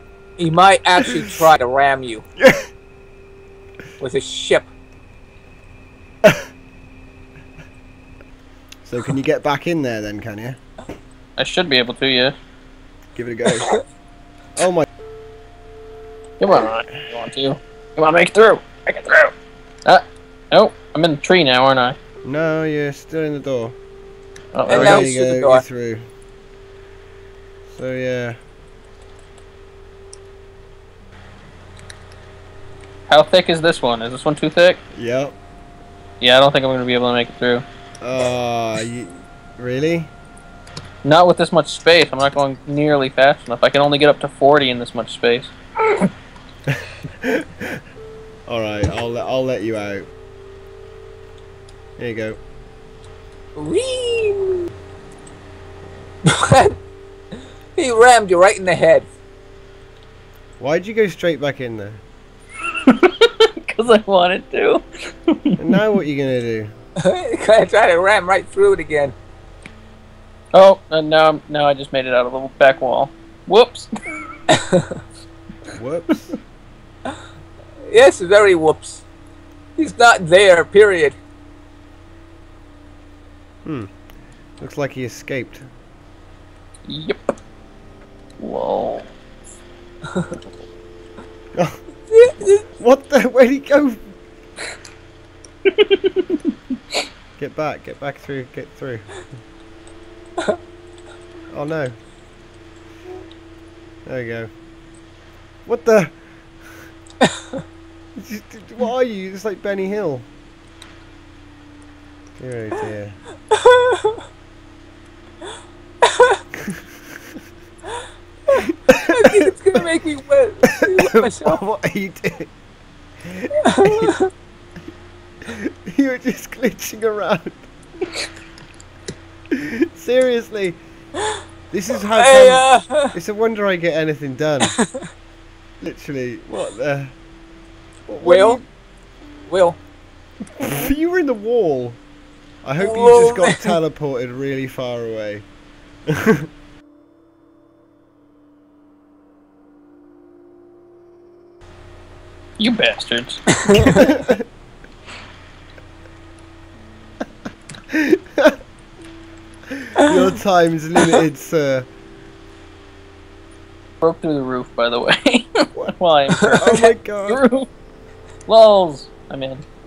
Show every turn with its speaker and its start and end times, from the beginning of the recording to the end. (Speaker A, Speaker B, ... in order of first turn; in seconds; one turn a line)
Speaker A: 0.4-2.2
Speaker B: 2.4-2.6
Speaker A: 4.0-4.7
Speaker B: 8.8-10.6
Speaker C: 11.4-12.3
Speaker B: 13.2-13.7
Speaker A: 13.5-13.8
Speaker B: 14.6-14.9
Speaker C: 16.4-19.3
Speaker C: 19.8-21.9
Speaker B: 22.2-23.8
Speaker C: 24.5-25.1
Speaker A: 24.6-25.6
Speaker B: 24.7-26.1
Speaker B: 27.7-28.4
Speaker C: 33.1-34.8
Speaker B: 34.9-35.4
Speaker C: 36.2-37.6
Speaker B: 38.0-40.1
Speaker C: 41.0-45.5
Speaker B: 46.7-47.8
Speaker B: 48.5-50.1
Speaker B: 52.0-52.4
Speaker A: 53.5-54.6
Speaker A: 56.3-56.7
Speaker A: 57.8-59.1
Speaker B: 60.6-62.0
Speaker C: 62.9-65.8
Speaker B: 65.6-66.7
Speaker A: 67.0-69.1
Speaker C: 70.5-73.9
Speaker A: 74.5-74.8
Speaker B: 75.7-76.3
Speaker A: 77.9-79.0
Speaker A: 79.8-81.2
Speaker B: 83.6-83.9
Speaker B: 84.6-85.7
Speaker C: 86.9-87.3
Speaker C: 88.4-89.1
Speaker B: 91.5-91.8
Speaker A: 92.1-92.6
Speaker B: 92.8-94.0
Speaker C: 95.8-96.2
Speaker B: 97.4-99.2
Speaker B: 101.5-101.9
Speaker B: 104.0-104.5
Speaker B: 105.7-106.8
Speaker B: 108.2-110.3
Speaker B: 112.4-113.2
Speaker A: 113.5-114.2
Speaker A: 116.0-116.4
Speaker A: 118.5-121.6
Speaker B: 118.9-119.5
Speaker B: 120.8-122.5
Speaker B: 123.2-124.1
Speaker A: 123.6-124.3
Speaker B: 125.4-127.7
Speaker B: 129.5-130.8
Speaker B: 131.7-134.7
Speaker A: 132.1-133.1
Speaker B: 135.8-137.2
Speaker B: 138.1-138.6
Speaker A: 138.2-138.6
Speaker A: 139.5-139.8
Speaker B: 140.6-142.0
Speaker B: 142.6-145.4
Speaker A: 142.8-143.7
Speaker B: 146.1-146.4
Speaker C: 152.6-153.4
Speaker A: 153.6-154.0
Speaker B: 153.8-154.4
Speaker B: 157.9-158.6
Speaker B: 159.7-161.9
Speaker C: 164.0-167.7
Speaker B: 166.5-167.4
Speaker C: 168.5-169.6